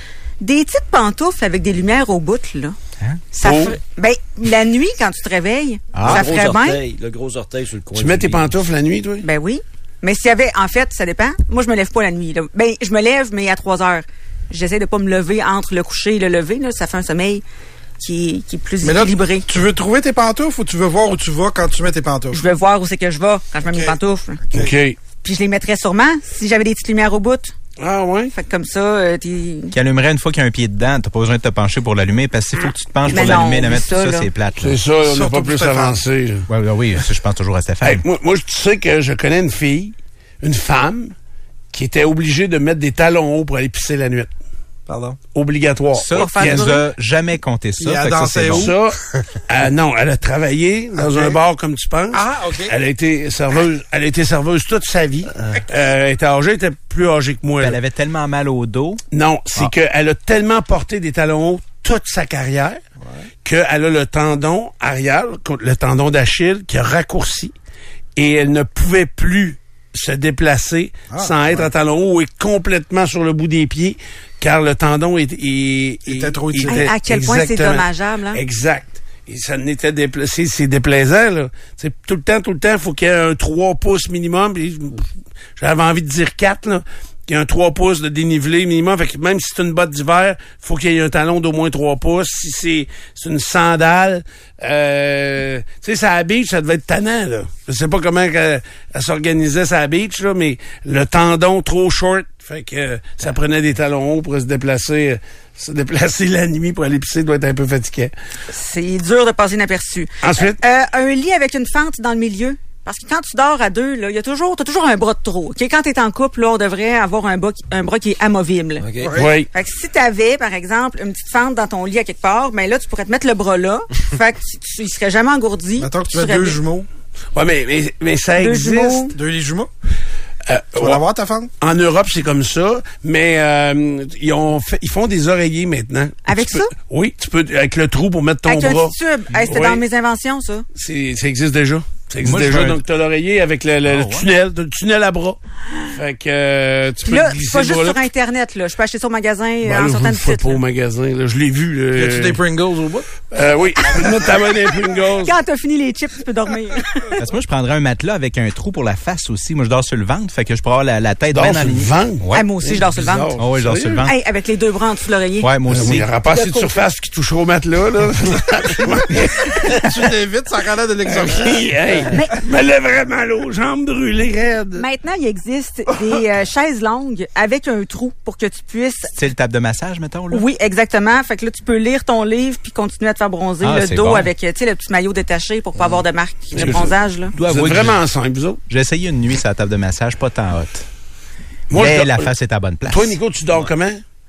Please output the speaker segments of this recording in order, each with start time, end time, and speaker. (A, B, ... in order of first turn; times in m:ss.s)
0:00.4-0:02.8 A
0:03.3-0:06.8 A
0:03.4-0:03.8 B
0:05.9-0:06.3 C
0:06.0-0:08.6 D
0:07.9-0:09.3 B
0:09.2-0:17.4 A
0:18.0-0:19.5 A
0:18.8-0:22.4 E
0:22.3-0:24.4 A
0:23.6-0:24.0 E
0:24.5-0:24.7 E
0:24.5-0:25.0 B
0:25.2-0:27.5 A
0:27.8-0:28.3 B
0:28.3-0:29.8 A
0:29.7-0:34.8 C
0:33.1-0:33.4 B
0:33.1-0:34.3 A
0:34.6-0:36.5 B
0:35.0-0:36.0 E
0:36.5-0:38.0 C
0:37.8-0:41.1 B
0:41.7-0:44.3 B
0:44.9-0:45.2 E
0:45.4-0:46.8 B
0:46.0-0:48.7 C
0:46.1-0:46.8 A
0:47.8-0:48.8 E
0:48.5-0:49.0 B
0:49.5-0:57.8 B
0:51.0-0:51.4 E
0:52.1-0:52.7 E
0:57.6-0:59.0 C
0:59.1-1:02.8 B
1:03.0-1:03.3 E
1:03.4-1:07.5 B
1:08.2-1:25.0 B
1:11.1-1:11.7 E
1:16.1-1:16.9 E
1:16.7-1:18.4 A
1:25.6-1:48.1 B
1:48.5-1:58.9 A
1:50.2-1:50.6 B
1:58.8-1:59.1 D
1:59.0-1:59.4 E
1:59.2-1:59.5 B
1:59.5-2:06.6 A
2:05.8-2:06.9 E
2:07.3-2:09.1 B
2:08.4-2:09.2 A
2:09.1-2:09.7 E
2:10.5-2:11.0 B
2:10.8-2:11.5 E
2:11.6-2:19.8 B
2:16.2-2:16.7 A
2:18.5-2:20.6 A
2:20.8-2:25.4 B
2:22.2-2:22.8 C
2:23.9-2:24.3 C
2:25.9-2:28.0 B
2:27.0-2:30.6 A
2:29.6-2:32.4 B
2:32.0-2:33.1 E
2:33.3-2:35.4 B
2:35.2-2:37.2 A
2:37.2-2:42.5 C
2:41.3-2:44.1 B
2:42.3-2:43.4 A
2:43.4-2:44.2 C
2:44.0-2:45.5 A
2:45.4-2:46.1 C
2:45.7-2:50.1 B
2:49.7-2:51.7 E
2:51.1-2:54.9 B
2:54.8-2:59.1 A
2:59.2-3:00.5 C
3:00.3-3:07.3 A
3:03.6-3:04.3 C
3:06.5-3:08.6 B
3:07.4-3:08.0 C
3:08.7-3:10.9 C
3:11.7-3:12.3 B
3:11.7-3:13.2 C
3:12.9-3:14.0 B